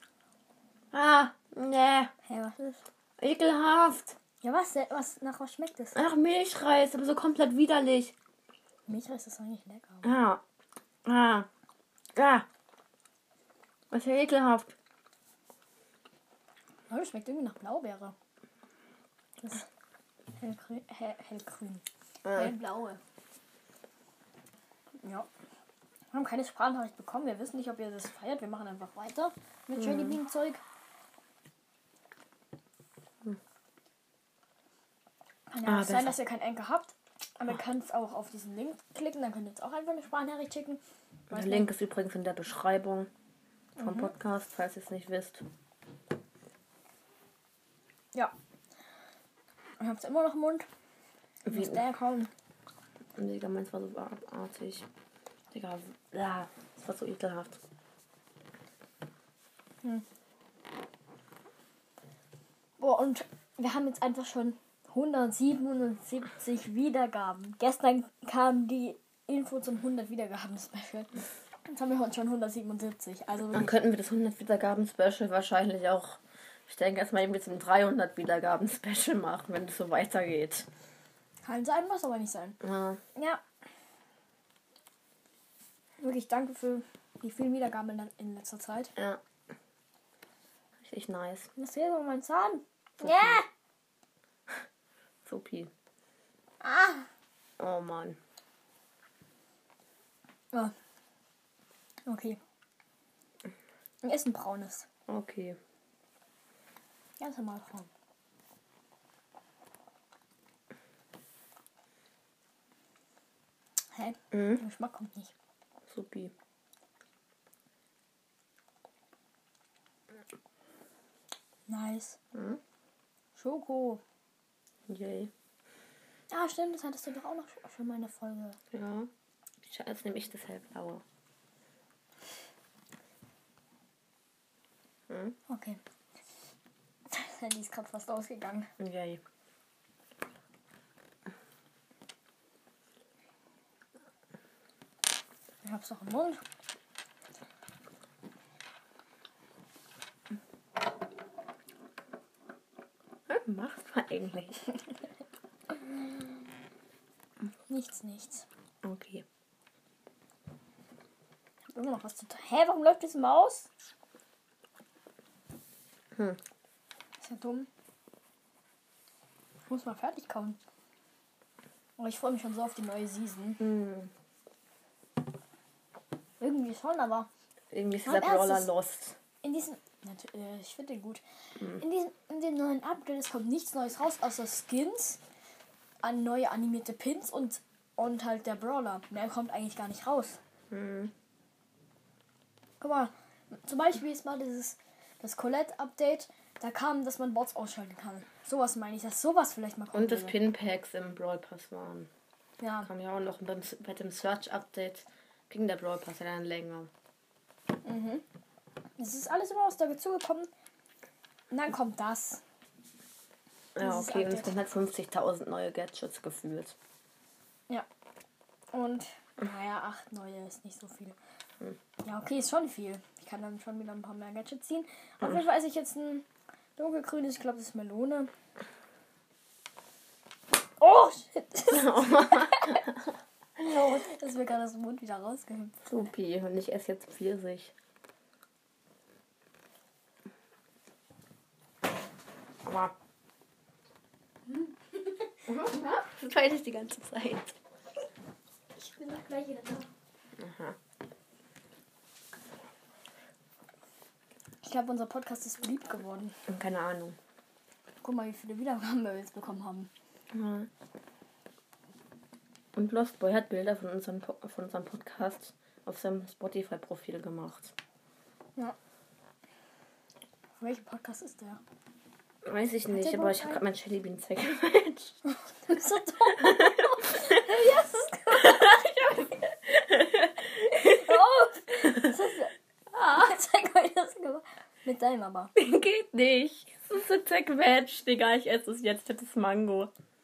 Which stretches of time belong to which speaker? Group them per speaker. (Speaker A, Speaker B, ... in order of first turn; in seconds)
Speaker A: 0.9-2.1, 3.2-4.2, 5.9-8.1, 10.0-10.4, 11.1-11.5, 12.2-12.5, 13.9-14.7, 22.2-22.5, 35.6-36.2, 41.3-43.1, 43.8-45.5, 51.5-51.8, 53.2-54.9, 55.5-57.6, 73.5-80.7, 82.6-83.0, 90.8-91.5, 93.0-93.4, 95.2-95.7, 97.6-98.2, 105.1-105.6, 114.3-114.6, 115.9-116.3, 122.3-122.6, 124.9-125.3, 128.7-129.1, 129.7-131.0, 135.1-135.4, 138.8-139.2, 153.3-154.7, 158.8-159.2, 173.6-174.1, 177.7-179.2, 190.7-191.1, 199.9-202.1, 202.8-206.9, 213.8-216.8, 231.7-233.0, 233.6-234.2, 235.9-237.7, 242.6-242.9, 245.5-247.5, 250.4-250.8, 256.5-257.2, 260.3-260.7, 262.8-267.7, 272.4-275.2, 276.4-277.0, 278.3-281.1, 282.9-283.3, 285.6-289.9
Speaker B: 2.2-2.8, 4.4-6.0, 8.9-10.1, 16.9-18.1, 19.4-19.7, 20.4-23.0, 25.0-25.3, 26.1-30.6, 35.5-40.8, 41.3-41.7, 43.8-44.1, 49.8-50.7, 51.5-52.3, 62.8-71.1, 71.7-73.7, 81.5-82.6, 83.2-83.4, 86.0-88.9, 91.6-93.5, 96.6-97.1, 102.1-102.4, 104.0-104.9, 107.2-107.9, 114.0-115.3, 121.7-122.2, 123.4-124.0, 126.3-128.6, 135.5-135.8, 137.1-138.7, 145.6-146.4, 157.7-158.4, 161.8-163.7, 167.2-167.7, 169.7-170.6, 172.0-173.6, 176.4-177.3, 178.1-178.7, 179.4-185.2, 186.0-190.4, 192.8-200.4, 202.6-202.9, 207.8-208.2, 209.0-210.5, 211.5-212.4, 213.8-214.5, 218.7-221.2, 222.0-226.2, 226.8-228.3, 230.8-232.8, 233.6-235.7, 248.8-249.9, 254.6-256.4, 258.0-259.9, 270.6-271.6, 272.9-273.6, 275.5-279.2, 280.6-285.5